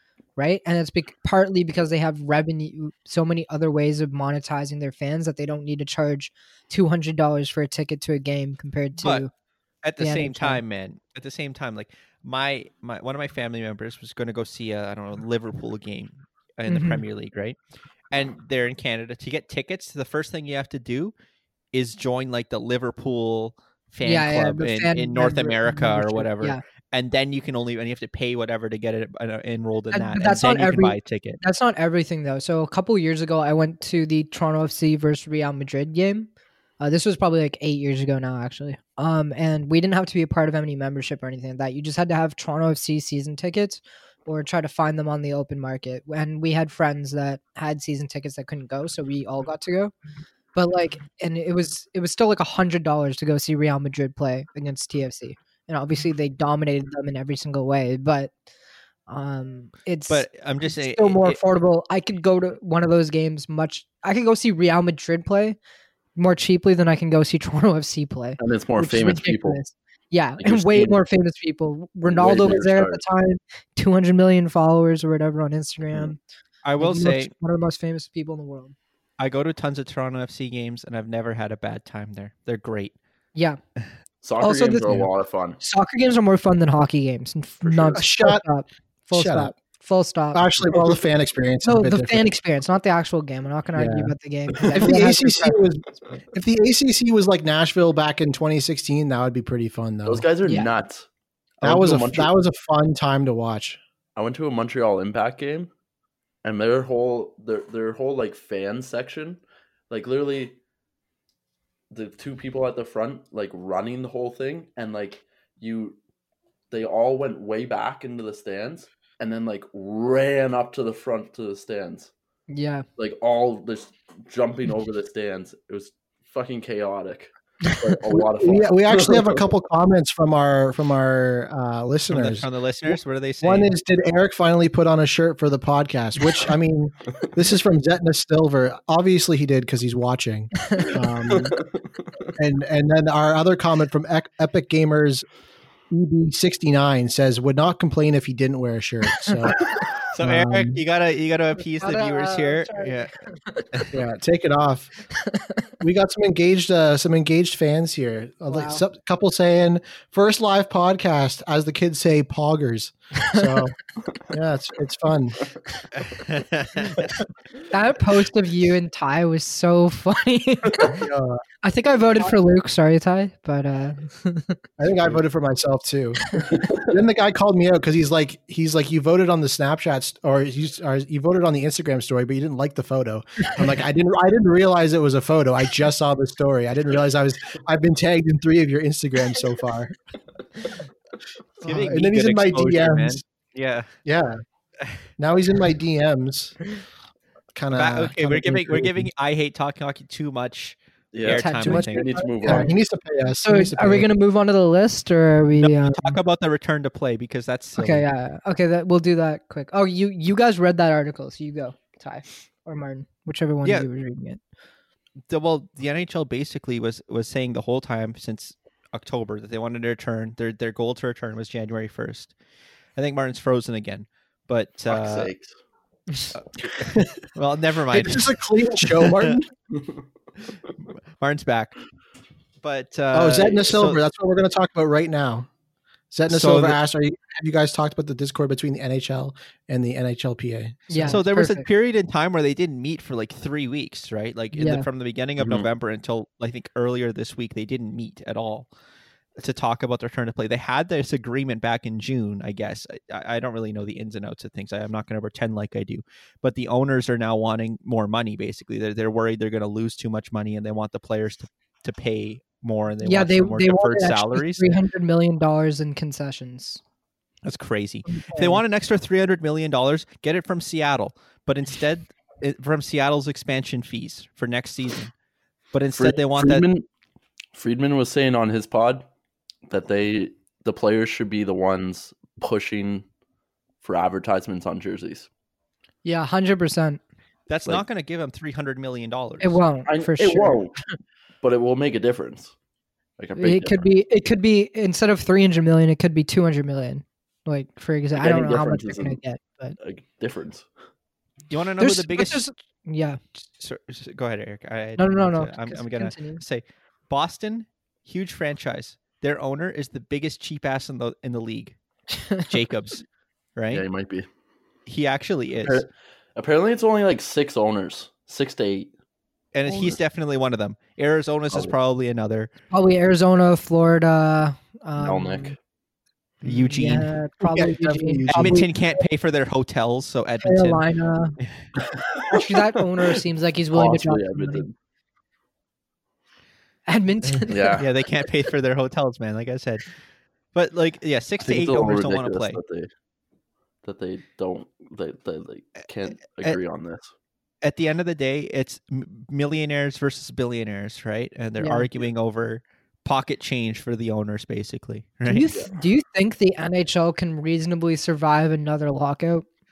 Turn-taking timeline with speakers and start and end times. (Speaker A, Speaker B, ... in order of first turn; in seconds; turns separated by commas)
Speaker A: 0.4-9.3, Speaker B: 9.8-17.6, Speaker A: 10.0-10.6, Speaker A: 16.7-17.0, Speaker B: 18.1-21.1, Speaker B: 21.7-31.4, Speaker A: 24.0-26.6, Speaker A: 29.9-36.3, Speaker A: 36.8-49.9, Speaker A: 50.5-58.3, Speaker A: 59.1-65.6, Speaker B: 60.1-61.4, Speaker A: 66.2-76.2, Speaker C: 68.4-69.6, Speaker C: 70.4-71.0, Speaker C: 72.0-73.0, Speaker B: 76.6-77.3, Speaker A: 76.8-78.7, Speaker B: 79.2-82.9, Speaker C: 84.2-85.6, Speaker A: 84.4-85.0, Speaker A: 85.6-90.7, Speaker C: 87.6-88.0, Speaker D: 87.9-88.4, Speaker D: 89.1-89.5, Speaker D: 90.3-92.3, Speaker A: 91.6-95.6, Speaker D: 93.7-94.1, Speaker D: 94.7-100.2, Speaker C: 100.0-101.1, Speaker A: 100.4-100.7, Speaker C: 101.6-102.3, Speaker D: 101.6-103.8, Speaker C: 104.2-105.7, Speaker C: 106.4-110.6, Speaker C: 111.9-116.0, Speaker C: 116.7-122.1, Speaker A: 122.5-122.8, Speaker C: 123.0-129.4, Speaker D: 128.1-141.6, Speaker B: 132.1-133.7, Speaker C: 141.3-141.6, Speaker D: 142.3-145.2, Speaker D: 145.9-149.7, Speaker B: 150.1-153.1, Speaker D: 150.2-150.8, Speaker A: 151.6-153.8, Speaker D: 153.9-154.9, Speaker D: 155.8-163.8, Speaker A: 158.5-158.8, Speaker A: 163.2-163.6, Speaker D: 164.3-165.4, Speaker B: 165.9-167.0, Speaker A: 167.7-171.0, Speaker D: 170.8-171.4, Speaker A: 171.6-174.6, Speaker D: 174.8-189.9, Speaker C: 176.5-176.8, Speaker D: 191.6-193.2, Speaker B: 191.6-193.9, Speaker D: 194.0-194.4, Speaker D: 195.2-196.6, Speaker D: 197.5-199.1, Speaker B: 197.7-202.1, Speaker C: 201.1-202.7, Speaker A: 201.3-202.7, Speaker D: 201.6-204.1, Speaker A: 203.4-206.2, Speaker B: 205.6-208.1, Speaker A: 207.8-214.4, Speaker B: 215.3-222.3, Speaker B: 222.9-225.3, Speaker C: 224.9-225.5, Speaker B: 226.3-229.4, Speaker D: 227.9-229.5, Speaker B: 231.2-231.8, Speaker B: 232.6-234.0, Speaker D: 233.1-235.5, Speaker D: 236.1-241.2, Speaker B: 236.3-236.8, Speaker A: 240.9-241.7, Speaker B: 241.0-248.7, Speaker A: 244.5-244.8, Speaker C: 245.4-245.7, Speaker B: 249.4-264.7, Speaker A: 263.0-266.8, Speaker B: 267.4-275.1, Speaker A: 268.1-268.6, Speaker B: 275.7-276.7, Speaker C: 275.9-276.8, Speaker C: 277.5-279.1, Speaker C: 279.7-283.0, Speaker C: 283.8-285.3, Speaker A: 286.0-287.0, Speaker B: 287.5-289.6, Speaker A: 289.4-290.6, Speaker C: 289.9-290.8, Speaker C: 291.4-292.5, Speaker C: 293.2-293.8, Speaker A: 293.4-299.8, Speaker C: 298.1-299.2, Speaker C: 299.8-300.7, Speaker B: 301.5-302.4, Speaker A: 301.8-303.2, Speaker B: 303.6-311.8, Speaker A: 305.0-306.4, Speaker A: 312.1-312.5, Speaker B: 312.5-313.0, Speaker B: 313.6-313.8, Speaker C: 313.7-314.2, Speaker B: 314.9-315.9, Speaker C: 315.6-318.9, Speaker B: 319.5-322.5, Speaker C: 319.7-320.0, Speaker A: 322.7-325.5, Speaker C: 325.0-325.6, Speaker B: 326.4-327.1, Speaker A: 326.4-328.7, Speaker D: 327.4-328.7, Speaker B: 328.3-330.8, Speaker A: 330.4-331.4, Speaker C: 331.8-332.4, Speaker A: 332.3-334.6, Speaker C: 333.7-334.7, Speaker A: 336.9-337.8, Speaker C: 337.5-337.9, Speaker B: 337.8-339.9, Speaker B: 340.5-342.6, Speaker C: 341.4-342.9, Speaker C: 343.8-347.1, Speaker B: 347.6-355.5, Speaker A: 351.6-351.9, Speaker A: 355.2-359.4